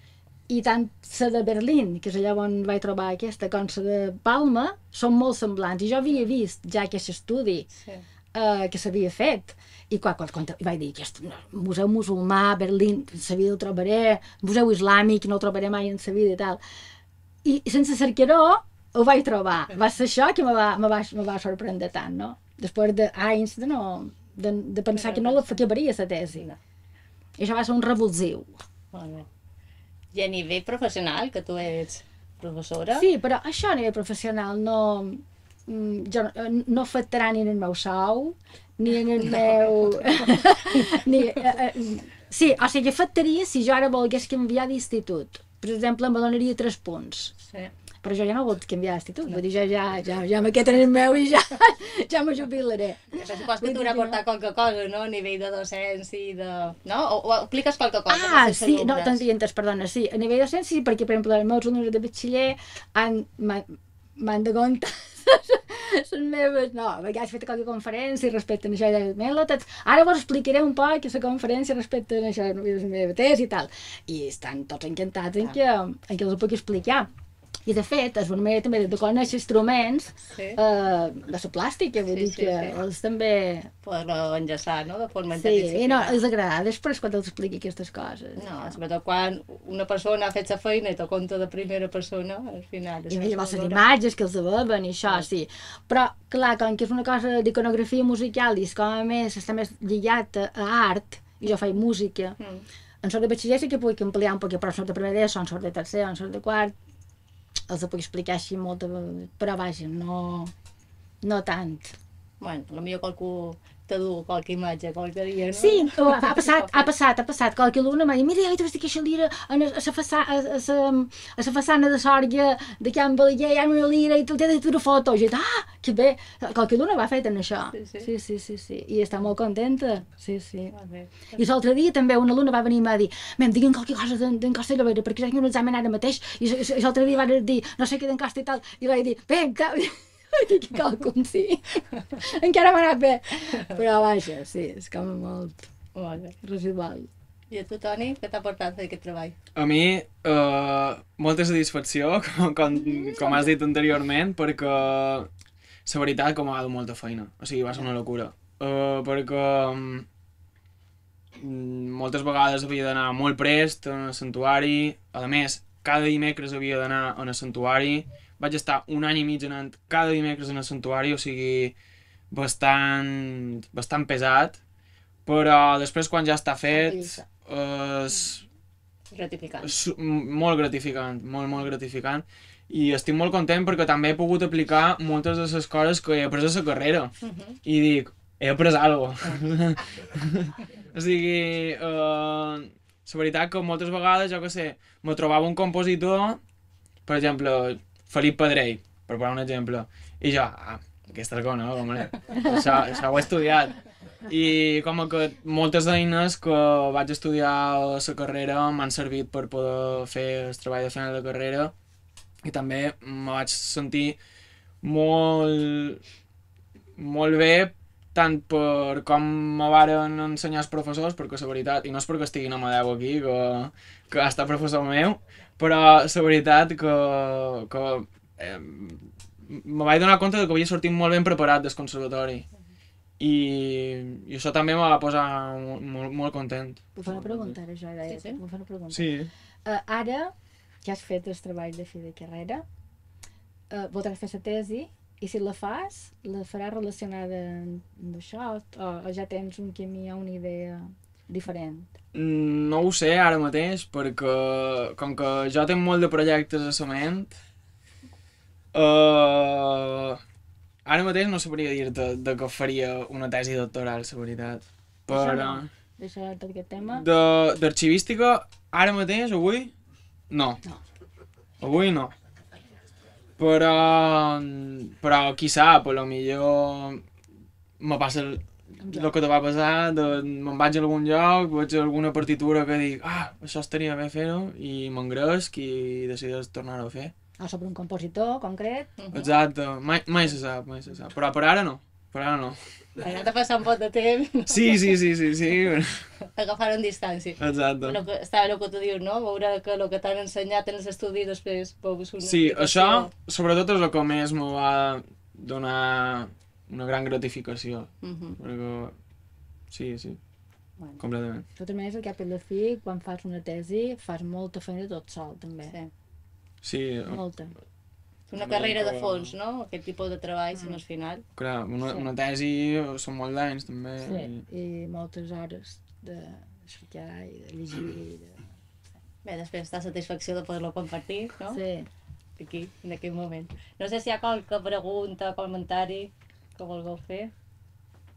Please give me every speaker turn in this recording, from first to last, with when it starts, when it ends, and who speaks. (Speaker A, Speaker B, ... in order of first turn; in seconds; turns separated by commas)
Speaker A: 0.5-7.7, Speaker B: 7.8-8.0, Speaker A: 8.3-16.6, Speaker A: 17.4-26.5, Speaker B: 24.9-25.6, Speaker A: 27.4-28.6, Speaker B: 28.9-29.3, Speaker B: 30.1-33.0, Speaker A: 32.9-47.3, Speaker A: 48.0-54.2, Speaker B: 53.1-59.2, Speaker A: 58.1-77.1, Speaker A: 77.7-83.7, Speaker B: 80.2-80.6, Speaker B: 82.1-82.8, Speaker B: 83.8-86.2, Speaker A: 85.3-88.8, Speaker B: 88.4-93.9, Speaker A: 93.1-102.4, Speaker B: 102.4-102.7, Speaker A: 103.0-106.8, Speaker A: 107.7-110.5, Speaker A: 111.2-112.0, Speaker B: 112.4-116.9, Speaker A: 115.5-130.7, Speaker B: 127.7-128.1, Speaker B: 130.7-131.4, Speaker A: 131.3-145.7, Speaker B: 145.9-146.4, Speaker A: 146.4-147.1, Speaker B: 147.5-149.3, Speaker C: 149.5-155.3, Speaker A: 152.9-153.5, Speaker C: 155.8-160.1, Speaker C: 161.4-171.7, Speaker C: 172.3-174.6, Speaker C: 175.2-178.4, Speaker A: 176.8-177.2, Speaker B: 179.1-179.8, Speaker C: 179.6-196.4, Speaker B: 187.2-187.6, Speaker C: 197.1-211.7, Speaker C: 212.4-214.2, Speaker C: 214.8-216.0, Speaker C: 217.0-232.5, Speaker C: 233.2-237.6, Speaker A: 236.9-239.1, Speaker B: 238.1-238.4, Speaker C: 238.9-239.3, Speaker A: 239.6-242.6, Speaker A: 243.7-252.0, Speaker C: 252.1-257.4, Speaker C: 258.7-260.2, Speaker C: 260.8-265.7, Speaker A: 265.1-267.1, Speaker C: 266.8-269.7, Speaker C: 270.3-270.6, Speaker C: 271.6-272.1, Speaker C: 273.4-277.0, Speaker C: 277.8-287.1, Speaker A: 278.8-279.1, Speaker A: 287.4-288.9, Speaker B: 289.0-289.3, Speaker C: 289.1-292.6, Speaker B: 293.0-295.0, Speaker C: 294.5-296.0, Speaker B: 296.2-303.1, Speaker C: 297.4-298.0, Speaker C: 302.2-308.9, Speaker B: 308.0-308.4, Speaker C: 309.7-310.2, Speaker C: 311.0-311.4, Speaker A: 311.6-315.7, Speaker B: 315.6-315.9, Speaker C: 316.6-317.3, Speaker A: 317.1-317.5, Speaker B: 318.3-321.2, Speaker C: 318.3-319.3, Speaker A: 320.5-320.8, Speaker C: 321.4-324.4, Speaker A: 324.0-328.5, Speaker B: 329.2-331.6, Speaker A: 331.5-331.9, Speaker B: 332.4-337.3